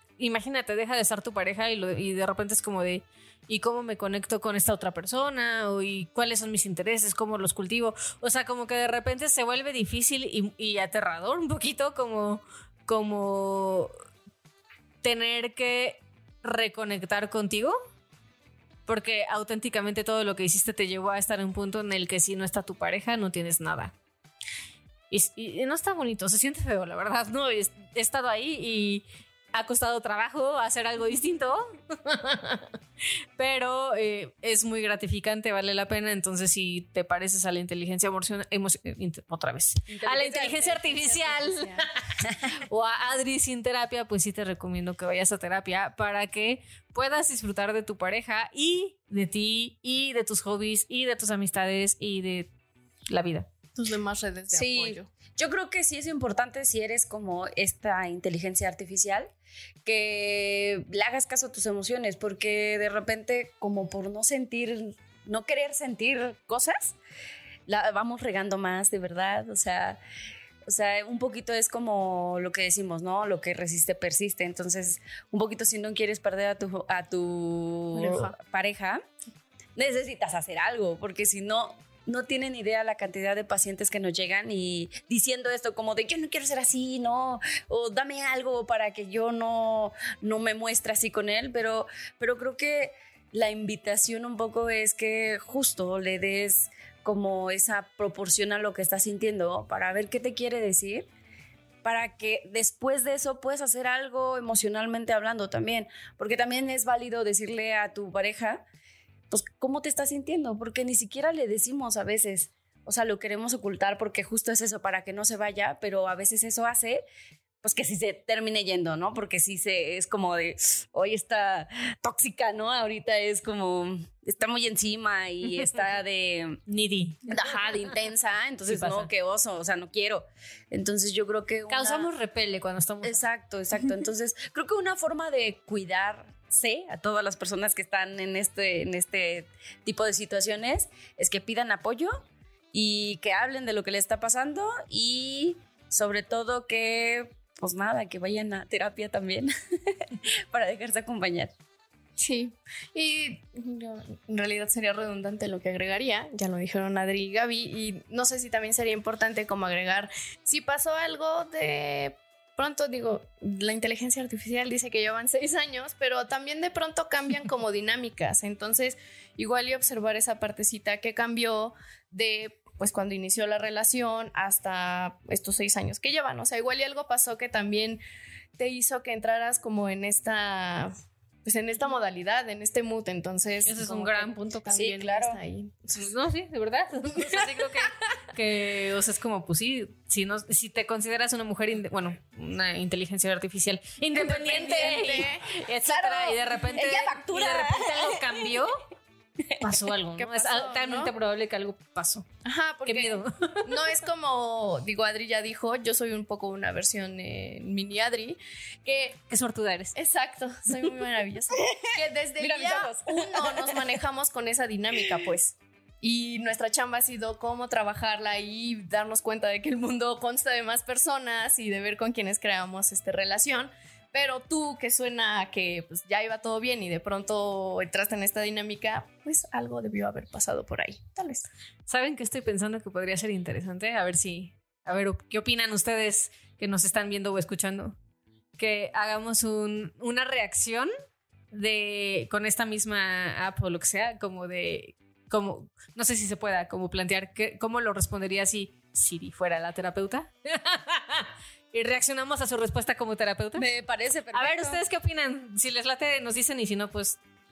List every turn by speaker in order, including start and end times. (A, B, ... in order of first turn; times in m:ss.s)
0:00.2-0:13.9 A
0:15.0-0:17.7 A
0:18.9-0:23.9 A
0:25.1-0:32.7 A
0:33.4-0:41.9 A
0:39.9-0:40.8 B
0:40.2-0:41.8 C
0:42.5-0:52.5 A
0:53.1-0:53.5 A
0:53.7-0:55.1 C
0:54.5-0:59.3 B
0:59.8-1:07.0 B
1:07.7-1:10.0 B
1:10.7-1:19.0 B
1:17.9-1:18.3 A
1:19.8-1:41.1 B
1:41.8-1:48.6 B
1:49.3-1:57.0 B
1:57.6-2:06.6 B
2:06.7-2:07.4 A
2:07.3-2:12.1 B
2:08.7-2:09.1 A
2:11.7-2:13.2 A
2:13.0-2:22.2 B
2:22.7-2:31.5 B
2:32.2-2:58.0 C
2:58.6-3:00.9 C
3:01.4-3:06.0 C
3:03.6-3:04.8 A
3:04.7-3:05.4 B
3:06.0-3:18.7 A
3:14.1-3:15.4 C
3:15.8-3:18.5 B
3:19.4-3:20.2 B
3:19.6-3:22.2 A
3:20.3-3:21.1 C
3:22.4-3:29.2 C
3:22.8-3:23.9 A
3:29.3-3:29.9 A
3:29.9-3:51.5 C
3:31.0-3:33.9 B
3:51.9-3:58.0 A
3:58.6-4:00.9 A
4:01.5-4:13.6 A
4:13.5-4:14.8 B
4:14.3-4:17.2 A